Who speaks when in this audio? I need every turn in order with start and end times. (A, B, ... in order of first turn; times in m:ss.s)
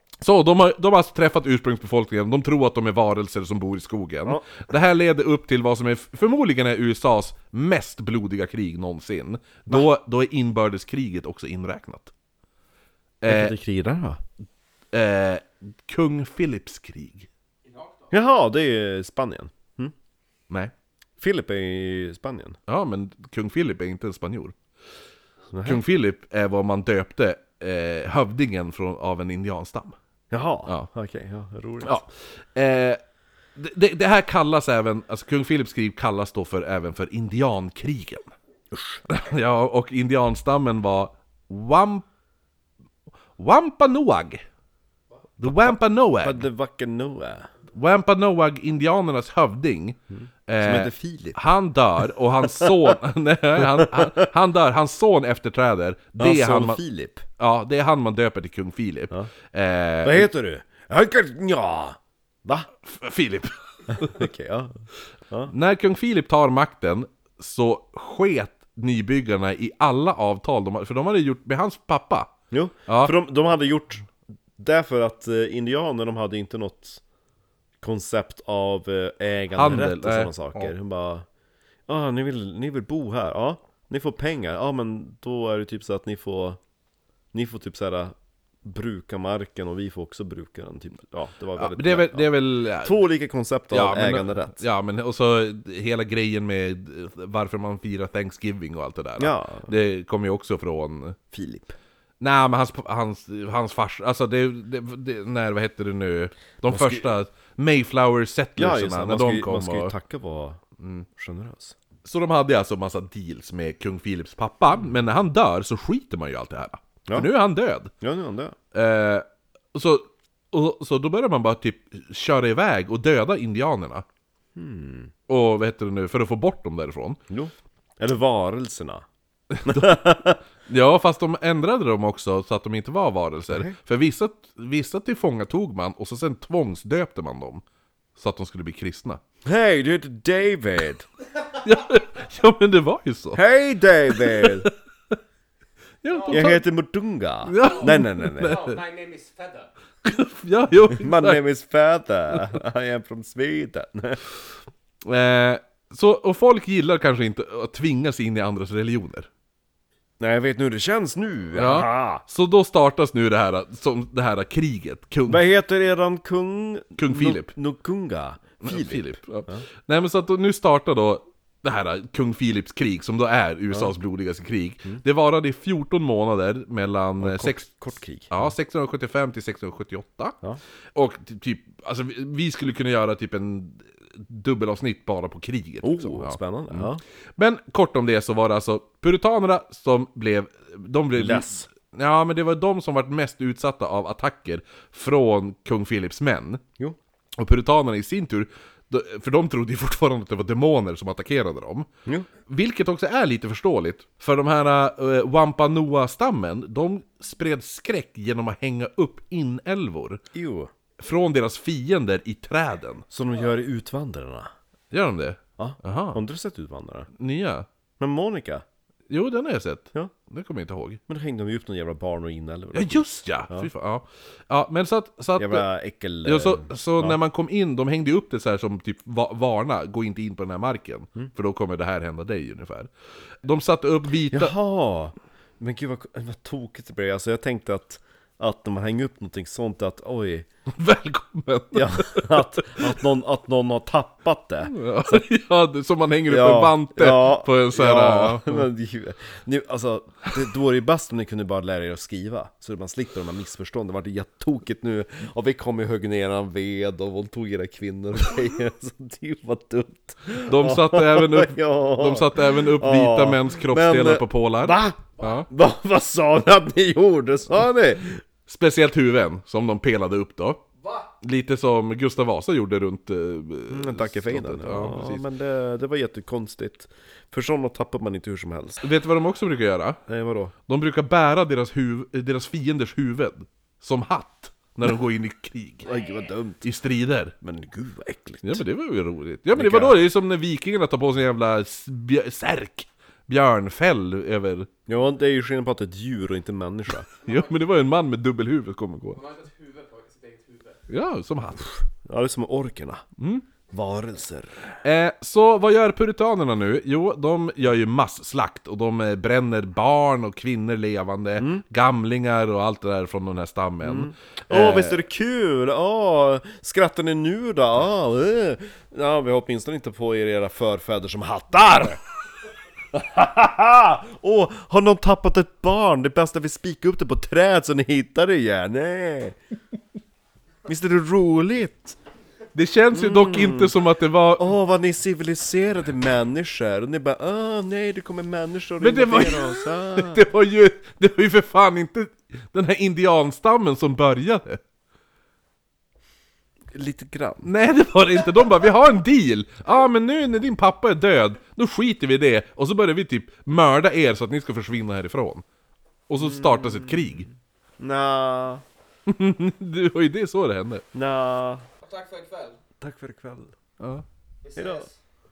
0:00.2-0:12.1 A
0:13.2-0:13.5 A
0:13.3-0:14.2 B
0:14.9-0:17.3 A
0:17.7-0:18.1 C
0:18.1-0:19.9 B
0:21.2-0:22.6 B
0:22.7-0:24.6 A
0:25.5-0:25.8 B
0:25.6-0:30.0 A
0:30.3-0:32.0 B
0:31.8-0:33.0 A
0:33.6-0:38.3 A
0:38.7-0:39.0 B
0:39.1-0:42.1 A
0:43.4-0:44.4 A
0:45.4-0:46.4 A
0:46.2-0:47.5 B
0:47.7-0:56.8 A
0:50.2-0:51.4 B
0:52.4-0:52.9 B
0:53.6-0:54.3 B
0:56.2-0:57.3 B
0:57.4-1:00.3 A
1:00.0-1:02.7 B
1:02.8-1:04.2 A
1:03.9-1:05.5 B
1:05.5-1:12.3 A
1:12.5-1:17.0 B
1:12.9-1:13.1 A
1:17.8-1:21.3 B
1:19.5-1:20.7 A
1:21.9-1:26.6 B
1:27.3-1:28.1 B
1:28.6-1:34.6 B
1:31.6-1:33.0 A
1:33.7-1:41.2 A
1:39.2-1:39.7 B
1:41.3-1:41.8 B
1:42.2-1:49.9 A
1:46.7-1:47.1 B
1:48.6-1:50.6 B
1:50.8-1:51.0 A
1:51.2-1:51.8 B
1:52.0-1:57.9 A
1:58.0-1:58.6 B
1:58.7-2:04.0 A
2:04.6-2:05.1 B
2:05.3-2:07.2 A
2:07.3-2:09.0 B
2:09.5-2:10.1 A
2:09.6-2:10.4 B
2:10.6-2:17.6 A
2:13.5-2:13.8 B
2:18.2-2:19.2 A
2:19.4-2:21.1 B
2:21.6-2:23.4 A
2:23.3-2:24.7 B
2:24.1-2:25.1 A
2:26.0-2:26.6 A
2:26.1-2:26.5 C
2:26.3-2:28.6 B
2:27.4-2:28.8 A
2:27.6-2:29.7 C
2:30.0-2:31.4 A
2:30.9-2:34.3 B
2:35.0-2:39.3 A
2:40.2-2:42.2 B
2:41.5-2:45.5 A
2:45.3-2:49.6 B
2:47.0-2:47.5 A
2:48.6-2:57.7 A
2:57.2-2:58.5 B
2:58.3-3:00.4 A
3:00.9-3:16.6 A
3:05.8-3:07.0 B
3:11.2-3:11.7 B
3:17.4-3:21.9 A
3:22.5-3:30.2 A
3:30.3-3:30.7 B
3:31.0-3:33.1 A
3:33.1-3:34.5 B
3:34.9-3:36.2 A
3:35.6-3:37.1 B
3:37.2-3:37.7 A
3:38.0-3:38.6 B
3:39.1-3:41.0 A
3:41.1-3:43.7 B
3:42.7-3:45.7 A
3:45.4-3:47.2 B
3:46.2-3:52.9 A
3:53.4-3:54.5 A
3:54.3-4:00.5 B
4:00.7-4:03.0 A
4:01.7-4:05.2 B
4:04.6-4:08.7 A
4:06.3-4:28.2 B
4:20.4-4:25.5 A
4:28.5-4:30.6 A
4:31.2-4:35.2 A
4:33.7-4:38.8 B
4:38.8-4:40.0 A
4:40.1-4:40.5 B
4:40.7-4:45.9 A
4:45.8-4:46.7 B
4:46.6-4:47.4 A
4:47.4-4:48.6 B
4:48.4-4:54.7 A
4:49.5-4:50.0 B
4:54.9-4:57.1 B
4:57.2-4:57.5 C
4:57.2-4:59.2 A
4:59.1-5:00.8 C
5:00.9-5:01.7 A
5:02.0-5:03.0 B
5:03.2-5:03.5 A
5:03.7-5:04.8 B
5:04.8-5:15.0 A
5:11.4-5:11.6 B
5:13.8-5:22.0 B
5:22.9-5:29.4 B
5:30.7-5:32.0 B
5:32.6-5:34.5 A
5:32.9-5:33.7 B
5:34.4-5:40.2 B
5:38.8-5:44.6 A
5:46.7-5:47.5 B
5:47.4-5:55.4 A
5:56.1-5:57.3 A
5:56.2-5:57.1 B
5:57.8-5:58.6 B
5:59.1-6:00.8 A
6:00.9-6:01.7 B
6:01.8-6:02.6 C
6:02.8-6:03.6 B
6:03.8-6:04.0 A
6:04.4-6:05.0 C
6:04.6-6:04.9 B